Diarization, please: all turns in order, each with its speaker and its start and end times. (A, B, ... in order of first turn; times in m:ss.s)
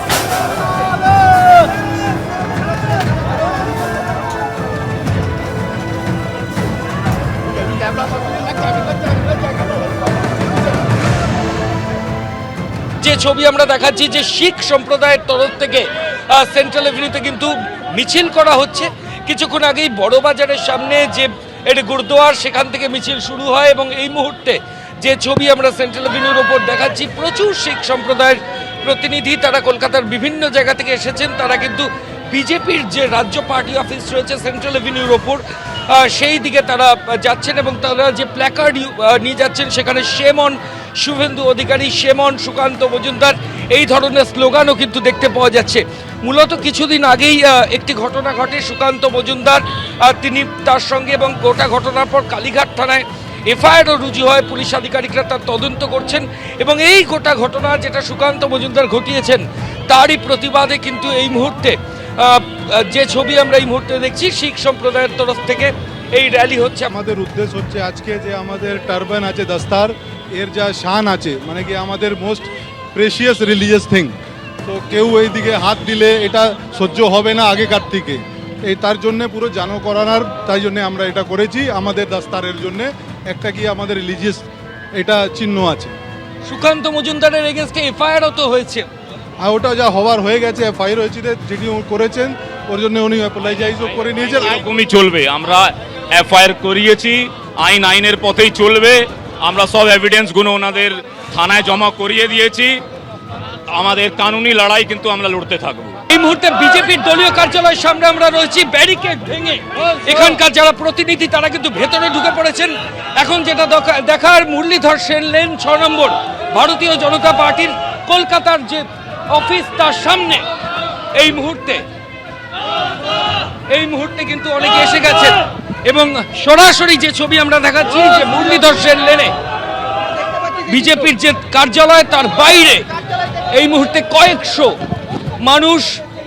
0:13.0-1:06.9 A
1:06.9-1:24.4 B
1:25.0-1:25.9 B
1:26.4-1:28.8 A
1:29.4-1:34.6 B
1:34.6-1:42.8 C
1:43.7-1:45.9 C
1:46.1-2:00.4 A
2:01.2-2:01.8 A
2:03.7-2:09.3 A
2:10.6-2:12.9 A
2:13.5-2:14.7 A
2:15.4-2:15.9 A